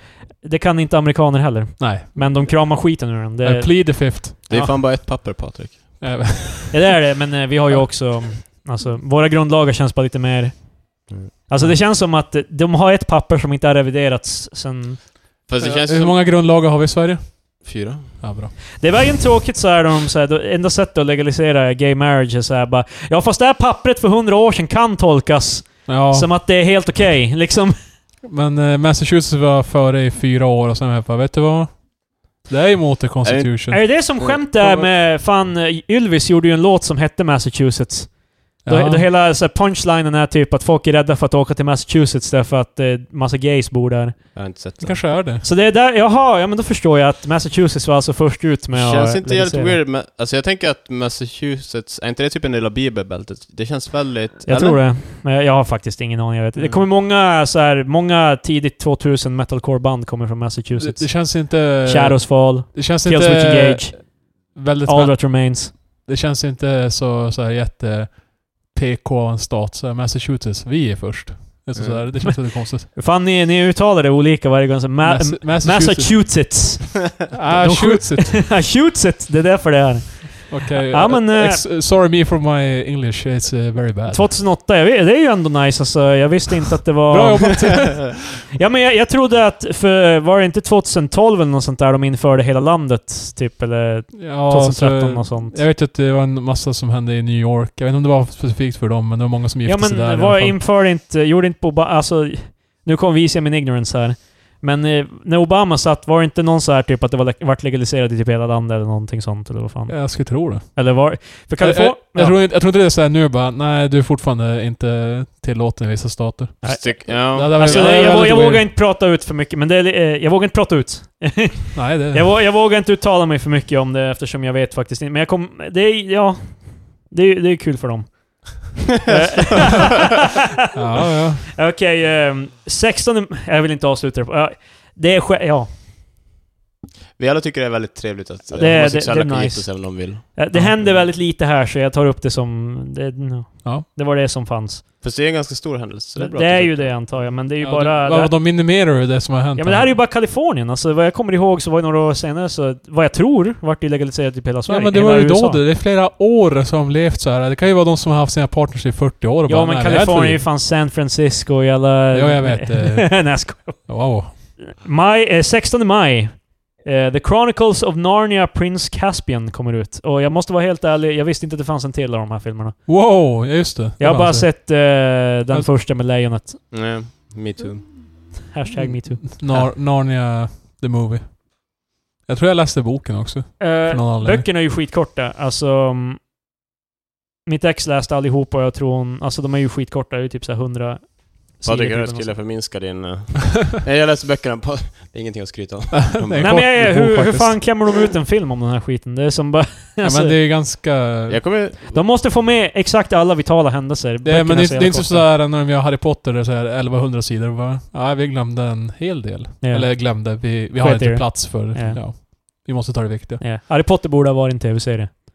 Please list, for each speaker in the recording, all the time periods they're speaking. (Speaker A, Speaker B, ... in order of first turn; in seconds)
Speaker A: 0.4-4.7, 6.7-15.1, 18.8-27.8, 33.7-44.2, 45.4-49.8, 54.5-64.1, 64.9-65.7, 72.3-81.6, 84.1-95.6, 99.7-112.4, 116.6-130.5, 131.4-135.7, 138.6-144.8, 146.2-148.6, 149.6-155.6, 159.5-172.8, 174.0-176.6, 178.5-179.4, 183.6-186.2, 187.5-192.4, 196.4-200.3, 201.9-205.3, 209.6-212.0, 213.4-215.1
Speaker B: 1.8-2.4, 3.4-4.4, 6.0-6.9, 15.6-17.7, 18.2-18.5, 25.9-26.3, 28.2-33.9, 38.6-39.1, 44.8-45.5, 60.8-72.9, 75.0-76.5, 77.3-78.5, 80.5-84.3, 87.1-88.1, 94.1-100.6, 109.9-118.7, 121.8-122.3, 130.7-131.5, 147.6-150.0, 154.7-160.4, 162.1-164.4, 172.9-175.7, 179.0-184.5, 195.9-197.6, 200.0-201.5, 204.2-213.4
Speaker C: 4.5-6.2, 15.5-16.2, 17.6-18.2, 33.2-34.9, 44.4-45.1, 48.7-54.8, 56.6-56.9, 71.8-72.1, 116.6-118.5, 137.2-141.1, 145.0-147.1, 176.7-178.5, 191.6-196.7, 201.3-202.1